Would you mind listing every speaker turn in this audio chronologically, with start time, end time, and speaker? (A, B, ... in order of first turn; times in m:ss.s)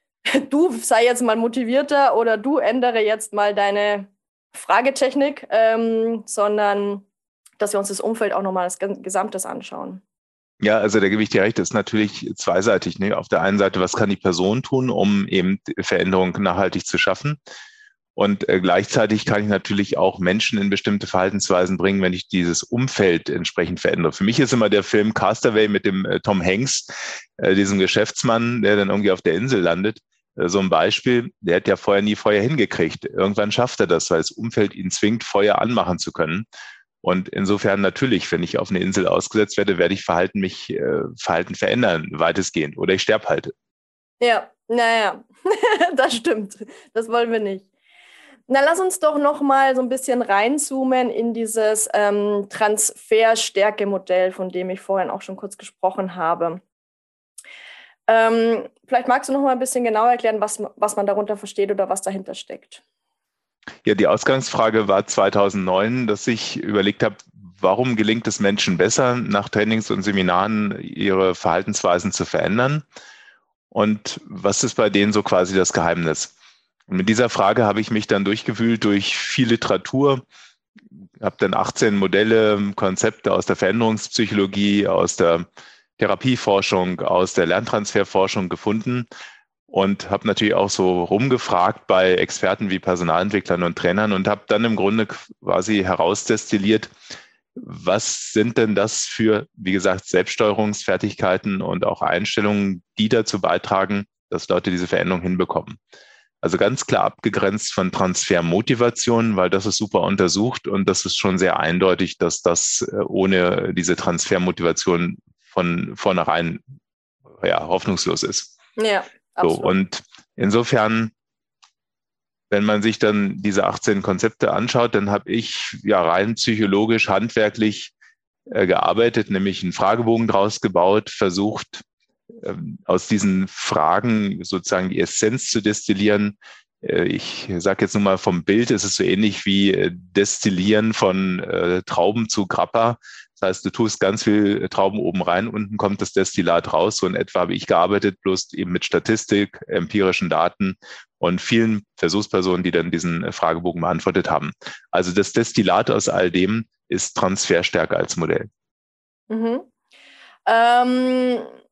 0:00.3-0:07.1 A
0:07.6-0:10.0 A
0:10.6-0:17.4 B
0:18.2-0:36.5 B
0:37.0-0:43.5 B
0:44.2-0:47.7 A
0:48.5-0:56.6 A
0:58.1-1:02.8 A
1:03.8-1:12.8 B
1:13.7-1:16.3 B
1:16.9-1:20.2 B
1:21.2-1:25.5 B
1:26.0-1:29.1 B
1:29.7-1:36.9 B
1:37.6-1:45.8 B
1:46.4-1:56.6 B
1:57.4-1:58.5 B
1:58.8-1:59.7 A
1:59.4-2:01.1 B
2:02.5-2:07.9 B
2:08.5-2:11.8 B
2:12.4-2:38.5 B
2:39.3-2:39.7 A
2:40.5-2:41.5 A